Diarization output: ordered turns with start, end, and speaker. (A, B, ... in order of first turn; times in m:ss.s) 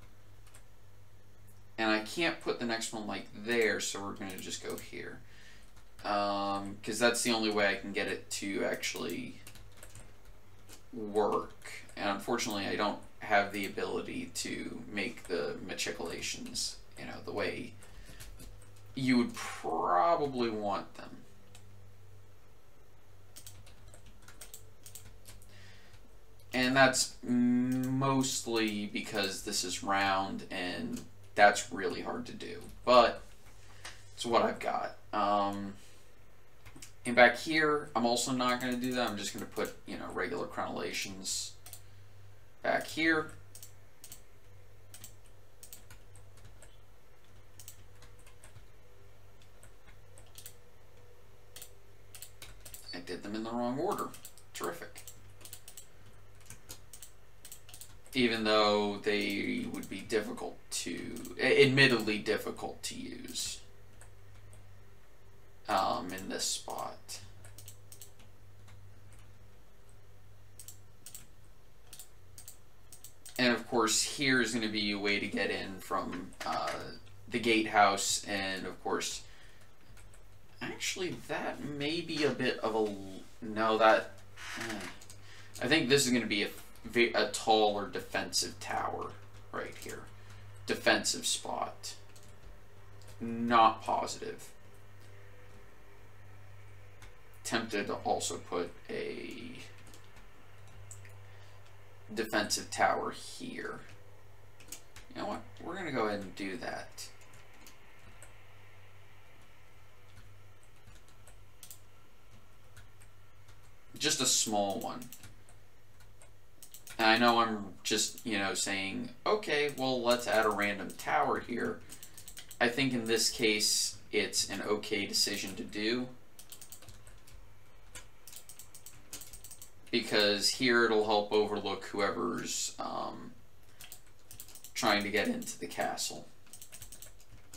0:01.8-0:05.2 A
0:06.0-0:09.4 A
0:10.9-0:17.7 A
0:19.0-0:21.2 A
0:26.5-0:33.2 A
0:34.1-0:35.8 A
0:37.0-0:41.5 A
0:42.6-0:43.3 A
0:52.9-0:55.0 A
0:58.1-1:03.6 A
1:05.7-1:07.2 A
1:13.4-1:19.2 A
1:20.6-1:24.9 A
1:25.6-1:30.1 A
1:30.6-1:32.0 A
1:33.2-1:34.5 A
1:37.4-1:39.7 A
1:42.1-1:43.8 A
1:45.1-1:47.1 A
1:53.9-1:55.1 A
1:57.0-2:01.8 A
2:02.6-2:06.1 A
2:09.9-2:13.3 A
2:14.7-2:16.3 A